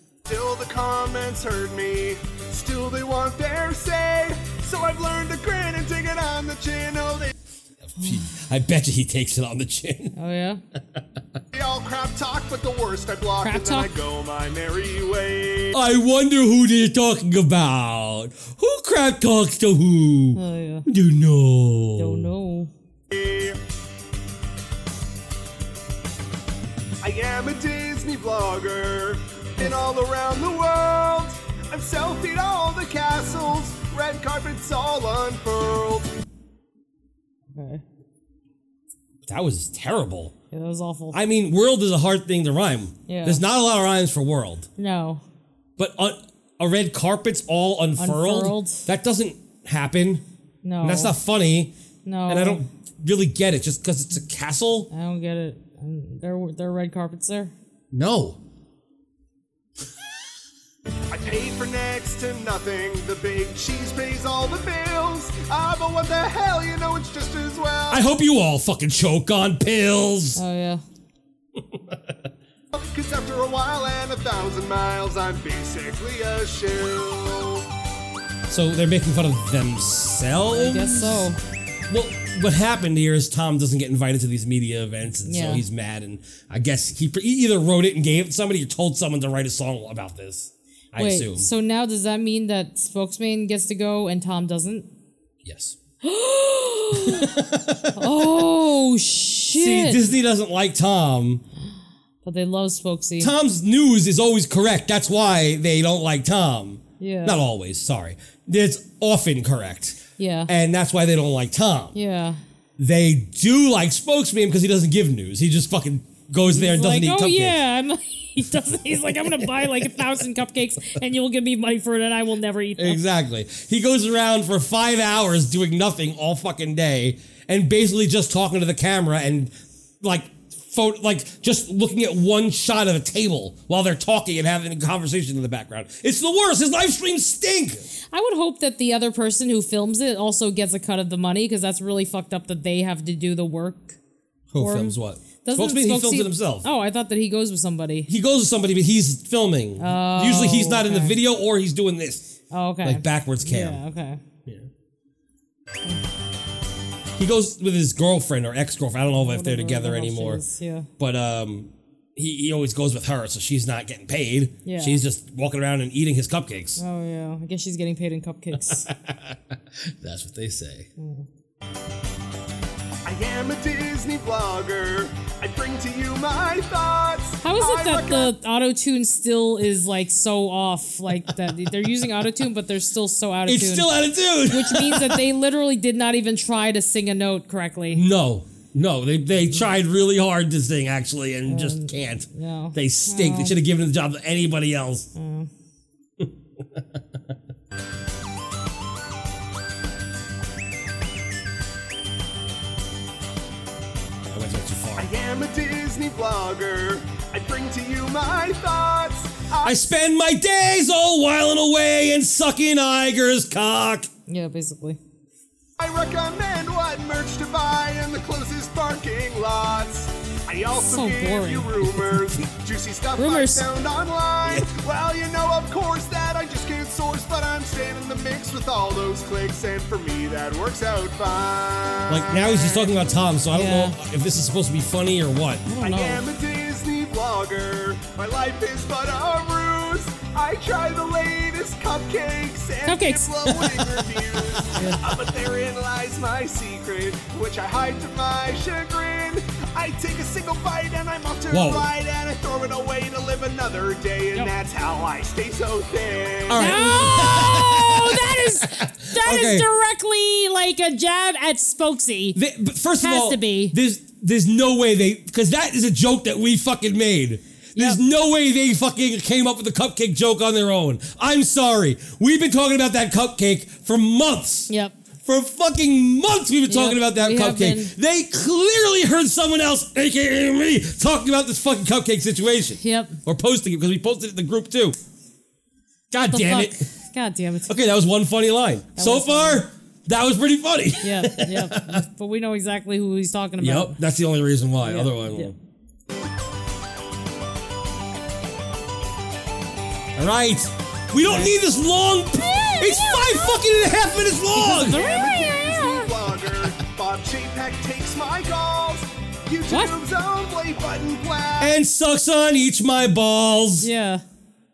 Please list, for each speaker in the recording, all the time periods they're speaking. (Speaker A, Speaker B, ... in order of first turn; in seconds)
Speaker A: 0.3-7.3, 11.5-15.8, 23.1-23.6, 27.0-36.1, 61.1-68.0, 72.7-77.6, 173.1-178.3, 205.0-209.8, 215.8-232.8, 235.8-256.7, 304.6-311.8
Speaker B: 7.8-10.2, 15.7-22.3, 39.3-40.3, 41.1-44.7, 45.8-50.2, 50.8-51.7, 52.3-54.9, 57.9-58.4, 67.9-70.4, 71.6-72.1, 78.5-81.3, 81.9-91.5, 95.4-95.8, 96.9-98.0, 99.5-101.4, 103.2-112.0, 112.8-117.6, 118.7-119.9, 122.8-137.9, 144.5-146.7, 148.1-153.8, 157.2-160.4, 161.0-166.8, 168.6-170.9, 183.5-185.3, 187.9-195.1, 196.2-197.0, 204.3-205.1, 209.6-214.1, 221.8-222.5, 232.1-235.7, 243.5-244.7, 251.5-251.9, 256.5-259.7, 262.4-274.7, 275.2-285.0, 286.1-286.9, 287.7-292.0, 293.6-295.6, 300.2-305.0, 311.6-313.9
Speaker C: 8.0-8.3, 10.2-10.6, 13.4-13.9, 20.3-20.9, 22.0-22.7, 37.5-37.8, 40.5-41.2, 43.1-43.4, 44.8-45.2, 48.0-48.9, 50.6-51.2, 52.0-52.6, 54.9-57.5, 70.3-70.8, 80.5-81.4, 85.2-85.6, 91.0-94.9, 96.0-97.3, 98.0-100.0, 102.2-103.3, 107.0-107.4, 110.2-110.5, 111.9-112.4, 116.5-123.0, 138.1-144.0, 144.6-148.1, 149.8-151.2, 152.5-154.2, 159.1-160.9, 164.7-165.0, 166.8-168.9, 171.0-171.3, 177.4-183.9, 184.5-188.0, 191.5-193.6, 195.2-195.5, 214.3-215.0, 220.8-221.7, 223.2-223.7, 233.5-234.0, 235.7-236.2, 242.8-243.3, 244.8-245.0, 256.6-262.4, 263.0-263.8, 274.7-275.0, 276.7-277.9, 282.8-283.2, 286.3-287.7, 289.0-289.6, 291.0-294.0, 294.8-295.5, 301.2-301.5, 302.4-303.6, 304.5-306.1, 309.7-309.9, 313.8-314.2